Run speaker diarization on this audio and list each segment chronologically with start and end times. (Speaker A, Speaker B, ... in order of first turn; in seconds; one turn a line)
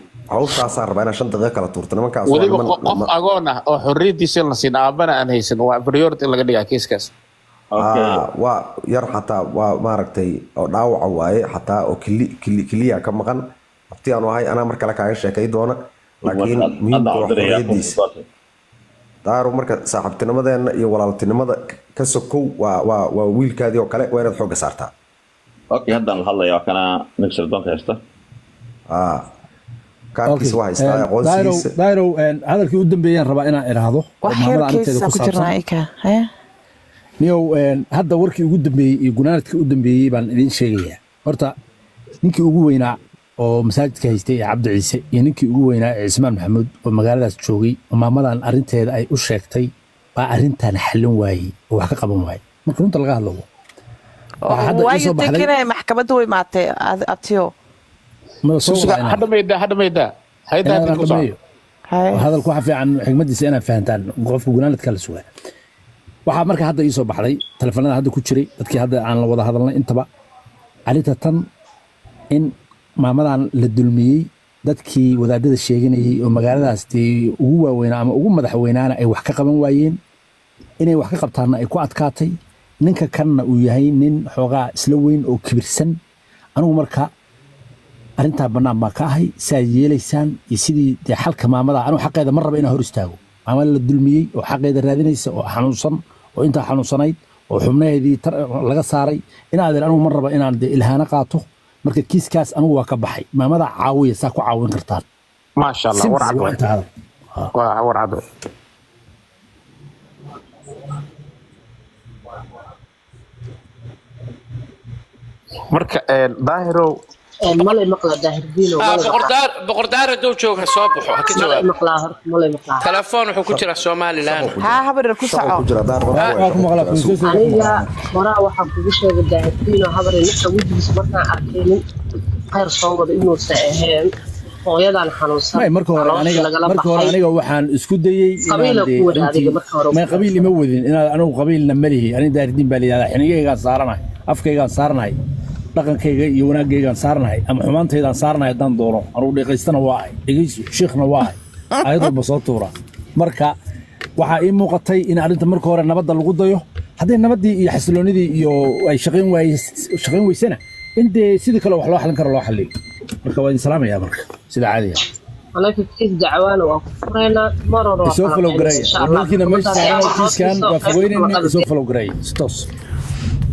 Speaker A: 0.3-3.1
Speaker B: 2.3-7.1
Speaker C: 7.7-8.3
Speaker A: 7.8-17.9
Speaker C: 16.3-18.2
Speaker A: 19.2-24.9
Speaker C: 25.7-28.0
Speaker A: 28.9-29.2
Speaker A: 30.1-31.7
Speaker D: 30.3-35.6
Speaker E: 34.2-36.3
Speaker D: 37.2-41.5
Speaker D: 42.2-53.5
Speaker E: 54.4-57.5
Speaker D: 54.5-55.5
Speaker D: 58.4-59.2
Speaker B: 58.6-61.3
Speaker D: 60.6-61.4
Speaker E: 61.9-62.2
Speaker D: 62.1-65.3
Speaker D: 66.3-70.1
Speaker D: 70.9-71.5
Speaker D: 72.3-80.0
Speaker D: 80.8-86.0
Speaker D: 86.6-87.1
Speaker D: 88.2-105.0
Speaker B: 105.6-106.6
Speaker D: 105.9-107.5
Speaker B: 107.5-108.2
Speaker B: 115.7-117.0
Speaker F: 117.4-119.3
Speaker G: 118.8-121.7
Speaker F: 121.3-122.9
Speaker G: 122.8-124.6
Speaker A: 124.2-127.2
Speaker E: 124.6-125.7
Speaker D: 126.1-127.9
Speaker F: 127.2-131.8
Speaker F: 132.5-134.1
Speaker F: 134.6-137.2
Speaker D: 135.5-145.2
Speaker F: 138.5-140.3
Speaker D: 145.7-153.6
Speaker E: 151.8-152.0
Speaker D: 154.2-162.7
Speaker D: 163.2-165.0
Speaker F: 165.6-171.6
Speaker D: 168.1-172.7